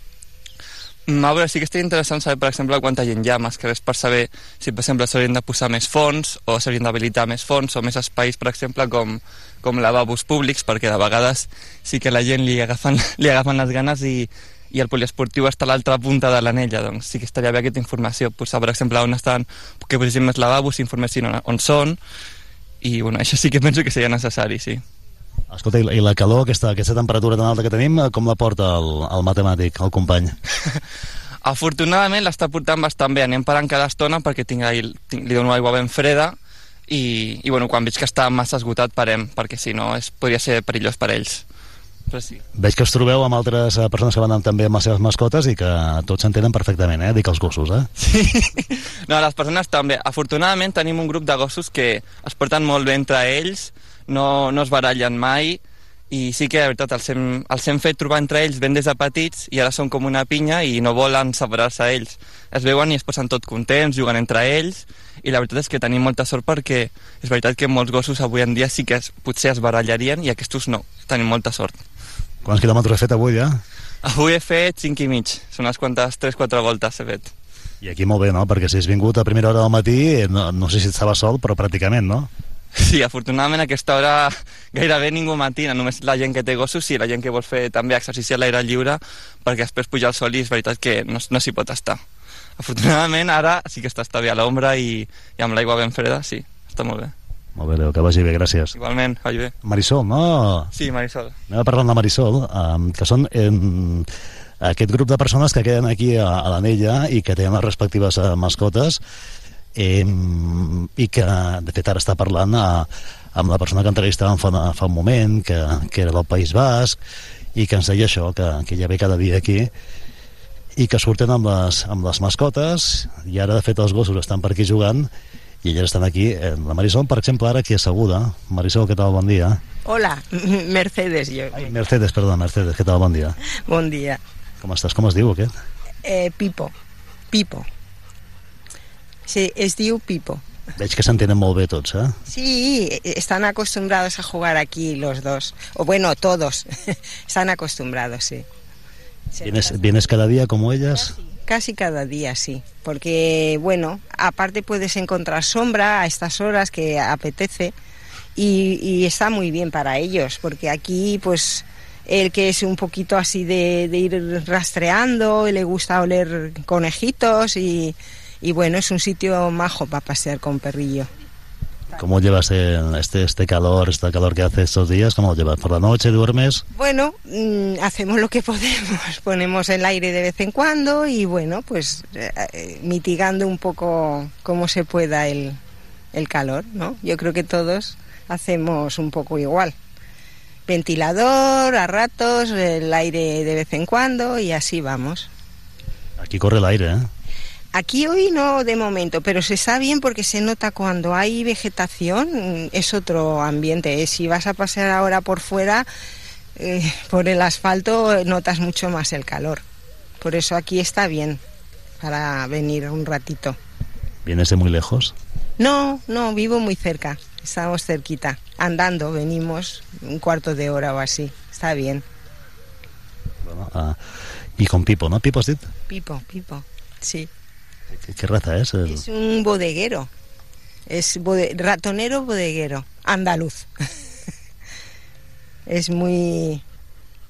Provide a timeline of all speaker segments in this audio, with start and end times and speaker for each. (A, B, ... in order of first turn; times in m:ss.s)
0:01.1-0:22.0 A
0:22.8-0:24.8 A
0:25.5-0:30.3 B
0:31.4-0:36.4 A
0:36.9-0:41.4 A
0:42.1-0:42.4 A
0:42.5-0:47.9 B
0:48.0-1:11.8 A
1:12.4-1:13.6 B
1:14.0-1:17.3 A
1:17.8-1:22.3 B
1:22.8-1:32.0 A
1:32.6-1:37.1 A
1:37.6-1:38.7 B
1:38.7-1:39.5 A
1:39.6-1:40.7 B
1:40.7-1:41.3 A
1:41.5-1:44.1 B
1:44.6-1:49.0 B
1:49.7-1:57.0 B
1:57.5-1:59.7 B
2:00.8-2:05.1 B
2:05.6-2:09.6 B
2:09.8-2:11.7 C
2:11.5-2:13.3 B
2:13.7-2:14.2 C
2:14.6-2:15.5 B
2:16.0-2:16.7 C
2:17.3-2:17.6 C
2:19.3-2:20.4 C
2:20.8-2:22.2 B
2:22.3-2:26.7 C
2:27.3-2:28.4 C
2:29.3-2:29.8 C
2:29.4-2:31.1 B
2:31.4-2:37.7 C
2:38.4-2:51.1 C
2:51.9-2:56.6 B
2:56.7-3:05.6 C
3:06.1-3:09.7 C
3:10.7-3:15.3 C
3:16.2-3:17.1 B
3:17.7-3:25.8 C
3:26.6-3:29.6 C
3:30.2-3:31.4 C
3:32.0-3:33.6 C
3:34.2-3:35.1 B
3:35.6-3:42.0 C
3:43.4-3:44.0 B
3:44.6-3:45.7 B
3:45.9-3:47.3 C
3:47.9-3:49.0 B
3:48.8-3:50.1 C
3:50.9-3:53.7 C
3:55.7-3:56.6 C